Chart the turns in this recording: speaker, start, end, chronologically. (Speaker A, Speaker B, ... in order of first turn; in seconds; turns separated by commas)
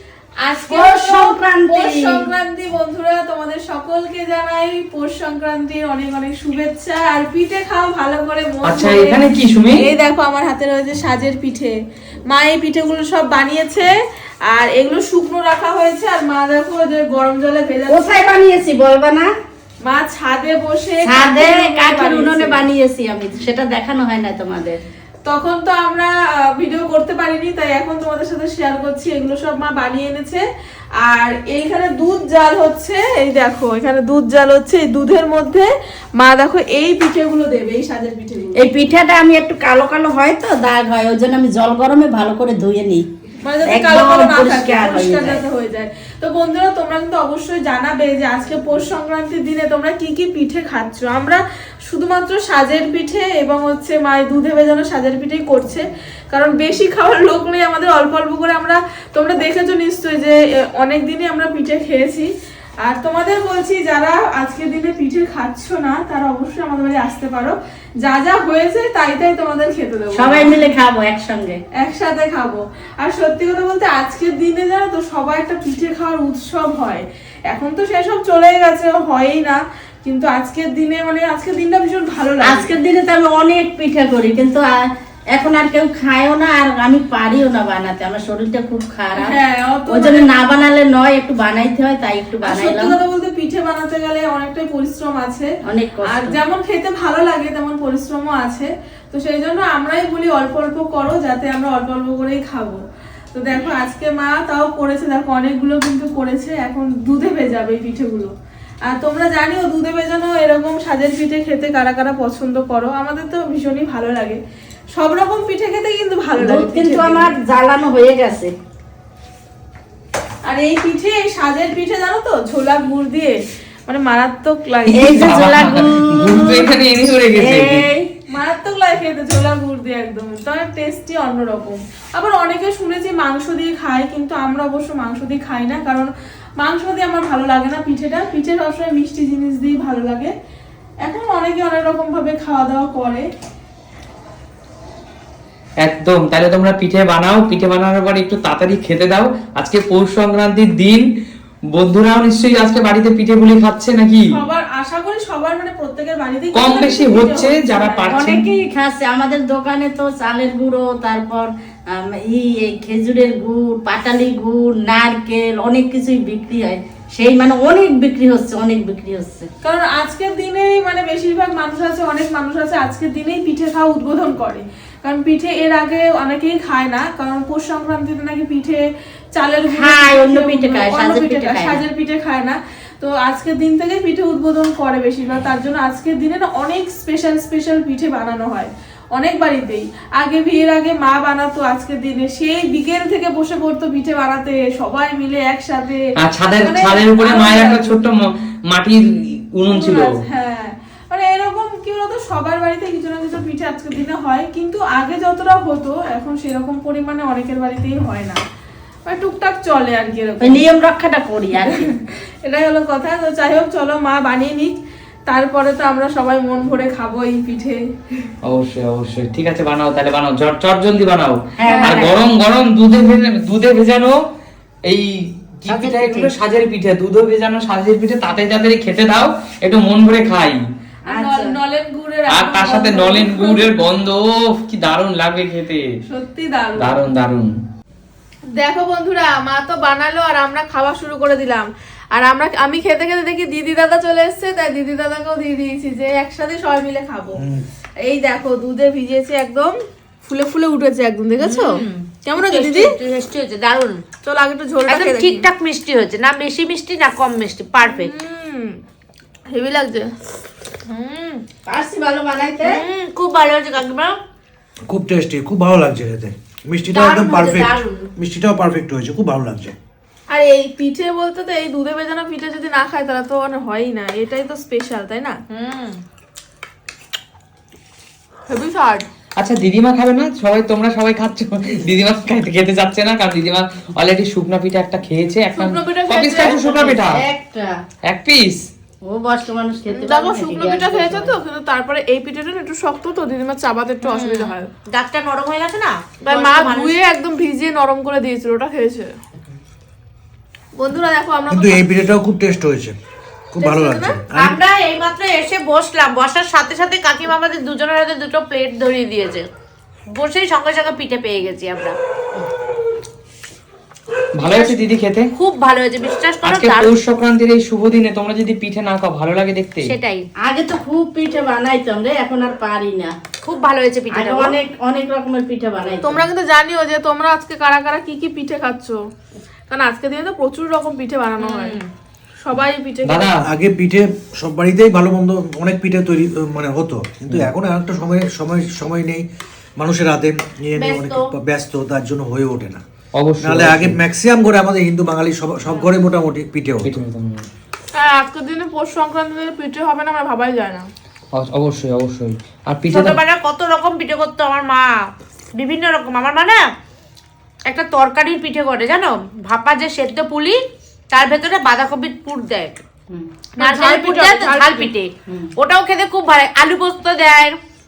Speaker A: 0.5-11.8, Speaker B: 0.6-2.2, Speaker C: 8.6-9.9, Speaker A: 12.3-13.9, Speaker A: 14.5-18.0, Speaker B: 17.9-19.3, Speaker A: 19.8-22.6, Speaker B: 21.0-24.8, Speaker A: 25.2-30.4, Speaker A: 31.0-38.6, Speaker B: 38.5-43.0, Speaker A: 43.4-62.3, Speaker B: 43.6-45.4, Speaker A: 62.8-70.6, Speaker B: 70.1-71.6, Speaker A: 71.8-82.7, Speaker B: 82.4-84.7, Speaker B: 85.3-89.4, Speaker A: 89.2-90.4, Speaker B: 89.9-92.9, Speaker A: 92.4-95.5, Speaker B: 95.7-96.4, Speaker A: 96.1-108.3, Speaker A: 108.9-114.4, Speaker A: 114.9-117.3, Speaker B: 116.4-118.5, Speaker A: 120.5-123.4, Speaker A: 123.9-125.4, Speaker C: 124.9-127.9, Speaker B: 124.9-126.7, Speaker B: 127.3-128.1, Speaker A: 128.3-140.3, Speaker A: 141.0-143.3, Speaker C: 145.8-151.1, Speaker C: 151.7-154.3, Speaker A: 154.3-158.2, Speaker C: 156.5-158.4, Speaker B: 158.1-169.5, Speaker A: 169.6-196.0, Speaker B: 179.7-181.8, Speaker C: 196.2-200.1, Speaker A: 196.6-198.0, Speaker A: 199.7-208.4, Speaker A: 209.1-210.6, Speaker B: 210.4-211.9, Speaker A: 211.7-217.8, Speaker C: 218.5-224.1, Speaker B: 221.6-222.2, Speaker A: 221.8-222.0, Speaker C: 224.9-230.6, Speaker B: 225.7-226.3, Speaker A: 231.1-233.7, Speaker B: 231.1-231.6, Speaker C: 232.3-235.8, Speaker A: 236.1-237.0, Speaker C: 236.8-237.5, Speaker A: 238.6-247.4, Speaker D: 247.3-247.6, Speaker A: 248.0-253.0, Speaker E: 251.4-254.1, Speaker A: 254.2-255.5, Speaker E: 254.9-258.1, Speaker A: 257.8-258.8, Speaker A: 259.5-260.1, Speaker E: 260.9-261.4, Speaker B: 261.7-262.8, Speaker E: 262.6-264.2, Speaker D: 264.9-269.8, Speaker E: 266.9-268.1, Speaker A: 270.3-275.4, Speaker E: 275.5-276.0, Speaker A: 278.5-279.1, Speaker C: 279.4-287.2, Speaker A: 285.6-286.9, Speaker B: 286.6-287.8, Speaker C: 288.1-288.6, Speaker B: 289.0-291.3, Speaker A: 289.9-294.7, Speaker E: 294.0-297.0, Speaker A: 296.2-299.1, Speaker A: 300.8-302.1, Speaker D: 301.5-303.0, Speaker D: 303.5-304.6, Speaker A: 303.6-304.2, Speaker E: 304.3-309.5, Speaker E: 310.1-312.0, Speaker C: 314.4-315.3, Speaker E: 314.4-316.9, Speaker C: 316.4-319.9, Speaker E: 319.8-320.2, Speaker B: 320.4-323.1, Speaker E: 323.4-324.6, Speaker B: 324.1-326.2, Speaker A: 326.0-329.0, Speaker A: 329.7-331.8, Speaker E: 331.4-331.9, Speaker A: 332.4-333.4, Speaker C: 333.0-333.4, Speaker D: 333.4-339.2, Speaker D: 339.8-342.8, Speaker E: 340.8-341.2, Speaker C: 343.2-344.0, Speaker D: 343.4-346.9, Speaker C: 346.8-347.4, Speaker A: 348.0-350.9, Speaker C: 351.4-353.2, Speaker E: 352.9-354.9, Speaker E: 355.6-356.6, Speaker E: 357.7-362.8, Speaker A: 363.6-364.9, Speaker E: 363.6-367.6